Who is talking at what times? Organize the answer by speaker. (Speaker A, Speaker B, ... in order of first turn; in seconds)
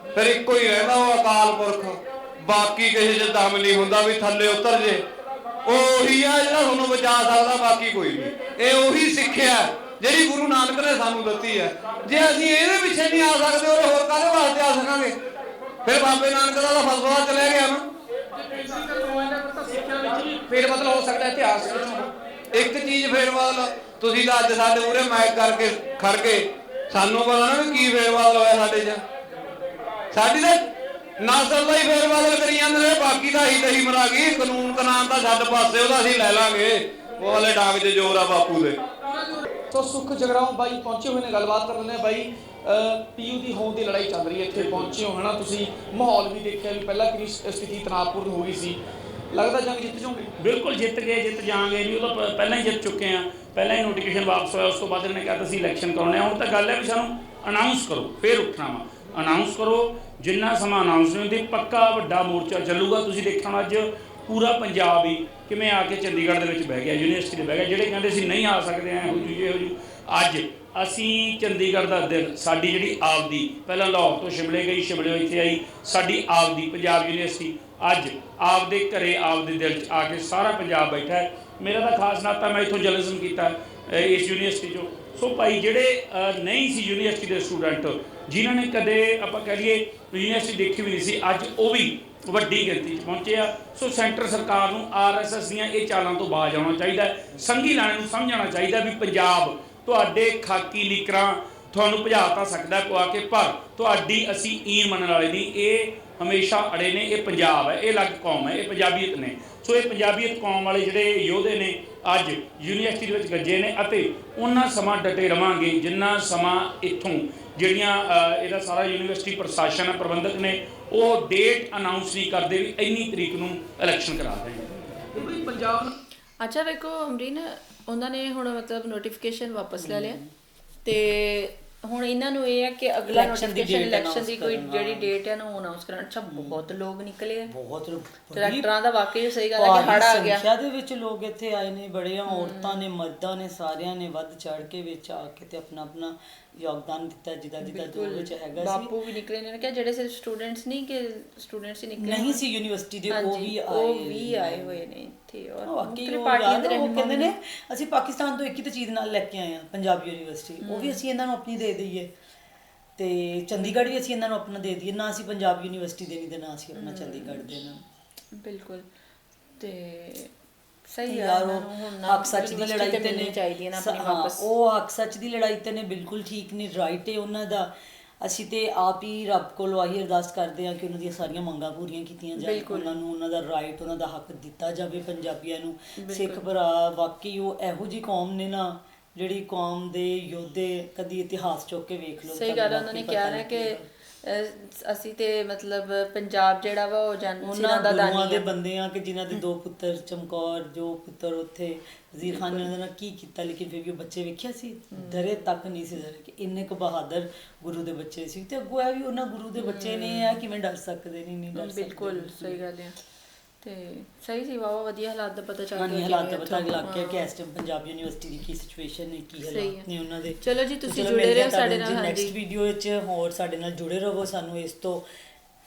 Speaker A: 0.1-5.0, 5.6-15.1, 15.8-17.8, 22.5-29.0, 30.1-30.6, 31.2-38.8
Speaker B: 18.4-22.1, 39.2-48.8, 49.3-50.3, 125.1-125.9
Speaker C: 50.4-124.7
Speaker D: 126.4-130.2, 130.8-137.5, 138.3-140.4, 142.3-142.8, 147.6-152.4, 153.1-157.3, 160.6-161.0, 166.7-167.6, 168.3-168.9, 169.6-170.3, 170.9-174.4, 182.4-182.9, 186.0-186.4, 192.2-198.5, 202.2-202.7, 204.9-205.4, 209.6-210.4, 211.6-212.9, 213.6-217.3, 219.5-219.8, 220.4-222.3
Speaker E: 129.8-130.3, 133.1-135.1, 136.3-136.6, 137.5-138.7, 139.5-148.9, 152.0-154.8, 155.7-162.1, 163.0-167.8, 171.0-193.8, 197.4-212.6, 215.7-225.0